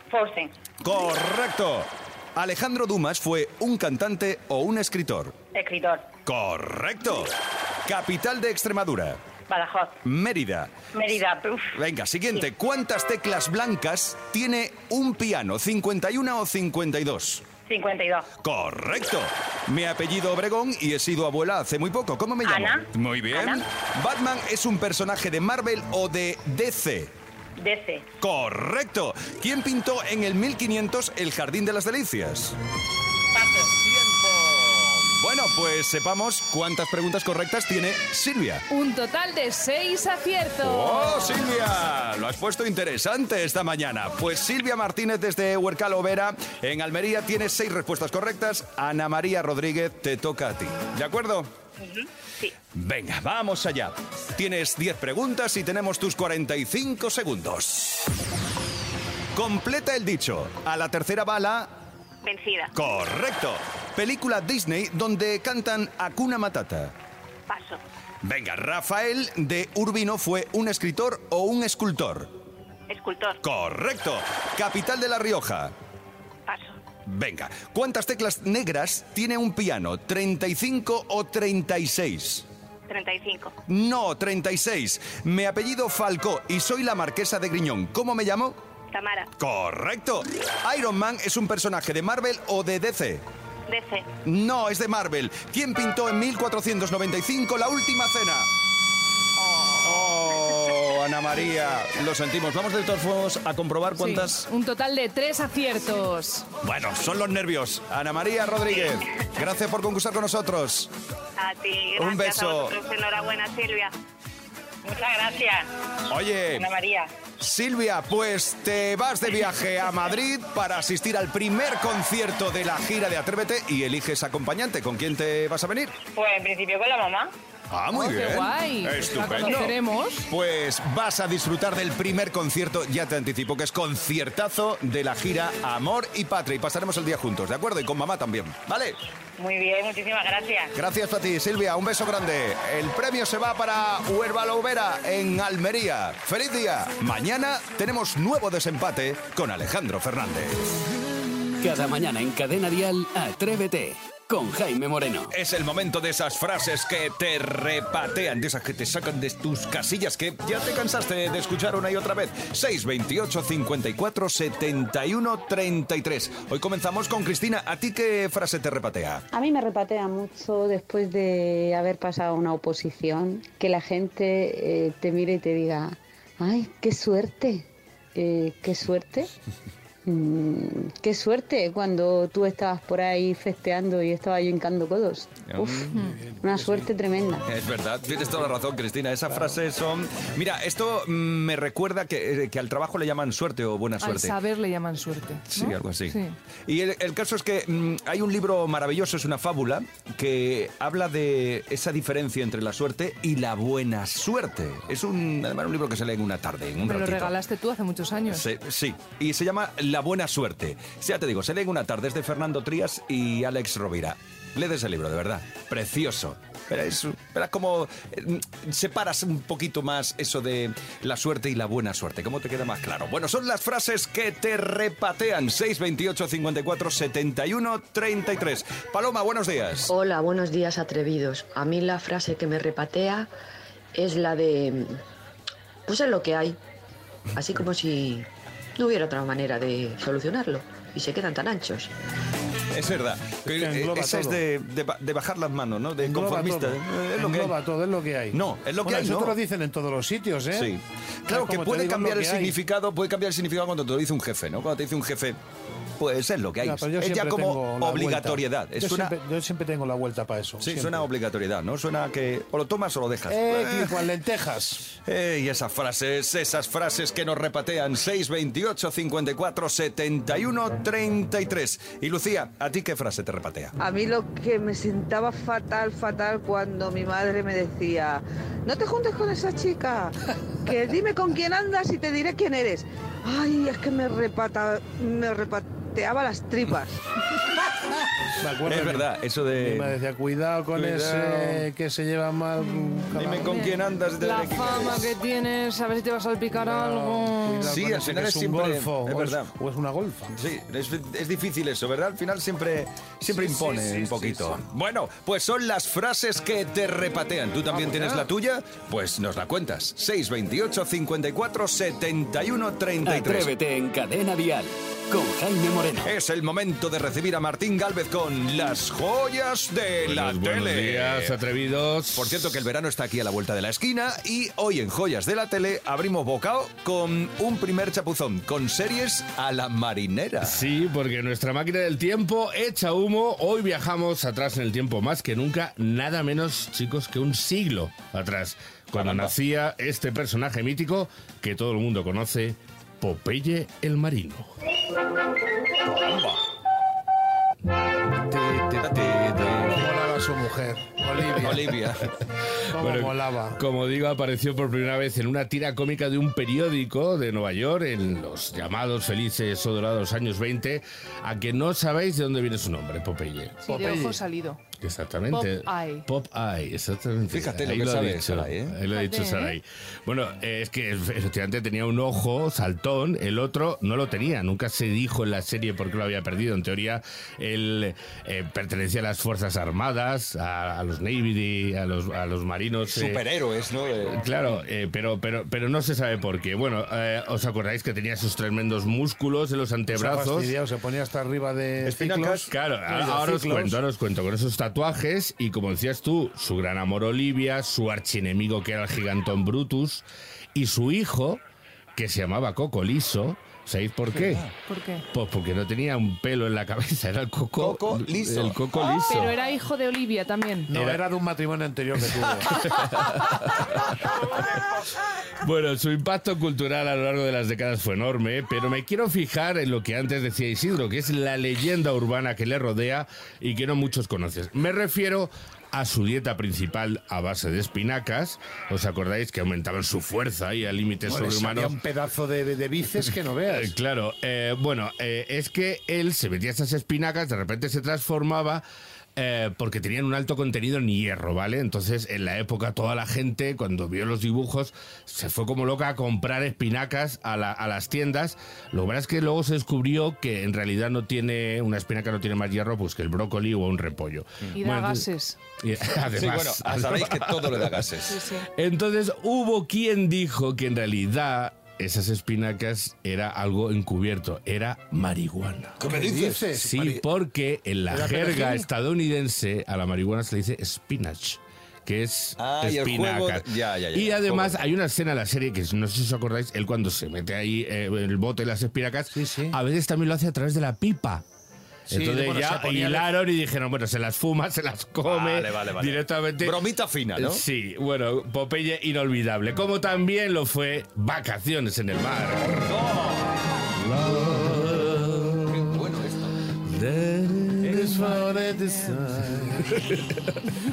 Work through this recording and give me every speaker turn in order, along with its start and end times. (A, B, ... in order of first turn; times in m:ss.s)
0:00.1-0:00.5 A
0:00.8-0:05.4 B
0:05.5-0:06.1 A
0:06.3-0:07.3 B
0:07.9-0:09.2 B
0:09.5-0:10.0 A
0:10.0-0:10.7 B
0:10.9-0:11.8 A
0:11.7-0:17.5 B
0:17.7-0:18.3 A
0:18.4-0:27.1 B
0:22.4-0:23.6 A
0:27.6-0:28.1 A
0:28.2-0:32.6 B
0:33.4-0:33.7 A
0:33.8-0:38.6 B
0:38.7-0:41.4 C
0:40.6-0:51.5 B
0:51.8-0:52.5 A
0:52.7-0:58.1 B
0:59.3-1:01.7 B
1:02.2-1:02.7 A
1:02.7-1:06.9 B
1:07.5-1:07.8 A
1:08.2-1:12.3 B
1:12.9-1:13.4 A
1:13.4-1:15.7 B
1:16.5-1:16.8 A
1:17.1-1:22.5 B
1:22.9-1:23.5 A
1:23.7-1:28.6 B
1:28.9-1:29.3 A
1:29.4-1:33.2 B
1:33.7-1:34.1 A
1:34.2-1:38.5 B
1:39.4-1:39.9 A
1:39.8-1:44.5 B
1:44.0-1:46.5 C
1:46.6-1:50.9 B
1:51.4-1:53.9 A
1:52.0-1:52.8 B
1:54.8-1:55.7 A
1:56.1-1:56.7 B
1:56.5-1:57.1 A
1:57.4-2:06.0 B
2:06.1-2:07.3 A
2:07.7-2:19.0 B
2:07.9-2:10.3 C
2:09.4-2:09.7 A
2:19.4-2:20.7 A
2:20.8-2:30.7 B
2:31.6-2:35.3 D
2:35.3-2:49.2 B
2:49.3-2:59.3 E
3:00.0-3:05.7 E
3:05.5-3:05.9 B
3:06.1-3:06.9 F
3:06.4-3:07.5 E
3:07.5-3:14.4 B
3:14.0-3:16.4 C
3:15.5-3:27.3 B
3:26.8-3:28.5 C
3:28.3-3:49.9 B
3:49.9-3:53.3 G
3:54.0-3:55.0 G
3:55.9-3:56.6 G
3:57.4-3:58.3 G
3:58.8-4:01.9 G
4:02.7-4:07.6 B
4:03.4-4:04.4 F
4:06.0-4:10.7 F
4:08.3-4:09.4 B
4:10.5-4:15.4 B
4:11.3-4:12.6 F
4:16.0-4:19.2 B
4:16.6-4:21.1 F
4:20.6-4:24.2 B
4:23.3-4:25.0 F
4:25.0-4:33.7 B
4:33.8-4:47.0 H
4:48.4-4:53.7 F
4:48.6-4:50.0 B
4:50.7-4:51.7 B
4:52.6-4:57.8 C
4:53.1-4:55.2 B
4:56.5-5:00.4 F
4:57.6-4:59.6 B
5:00.3-5:13.5 B
5:03.3-5:04.6 F
5:07.7-5:08.3 F
5:13.0-5:16.1 D
5:16.0-5:21.4 B
5:20.0-5:22.7 I
5:22.1-5:30.7 B
5:30.4-5:44.5 I
5:39.0-5:39.3 B
5:45.9-5:46.4 B
5:48.4-5:48.7 F
5:48.6-5:49.9 B
5:49.6-5:51.7 F
5:51.3-5:52.1 B
5:52.7-5:53.6 F
5:52.7-6:03.7 I
6:03.7-6:04.2 F
6:03.7-6:04.6 C
6:04.8-6:23.2 I
6:05.3-6:06.1 C
6:07.3-6:08.8 B
6:08.9-6:09.6 C
6:22.9-6:24.6 B
6:24.1-6:30.6 I
6:29.9-6:33.8 F
6:31.8-6:32.5 B
6:32.5-6:40.0 I
6:40.6-6:41.4 I
6:42.0-6:44.5 I
6:44.2-6:44.5 B
6:44.7-6:45.0 C
6:45.1-6:49.4 I
6:47.6-6:48.8 B
6:48.9-6:50.7 C
6:50.7-6:52.5 F
6:50.7-6:51.0 I
6:52.5-6:54.3 I
6:55.4-7:11.8 I
7:11.1-7:13.7 F
7:13.1-7:18.6 I
7:19.2-7:37.9 I
7:34.6-7:35.4 C
7:35.9-7:38.2 B
7:38.1-7:38.5 C
7:38.5-7:45.9 I
7:45.8-7:47.0 B
7:45.8-7:46.9 F
7:46.5-8:01.2 I
7:47.9-7:48.6 F
7:52.4-7:54.6 B
7:59.1-7:59.6 F
8:01.9-8:03.1 F
8:01.9-8:06.6 I
8:05.0-8:07.4 B
8:07.2-8:12.7 I
8:12.5-8:13.4 B
8:13.8-8:15.7 I
8:15.5-8:16.4 B
8:16.6-8:18.2 I
8:17.6-8:17.9 B
8:17.7-8:19.7 F
8:19.7-8:20.6 I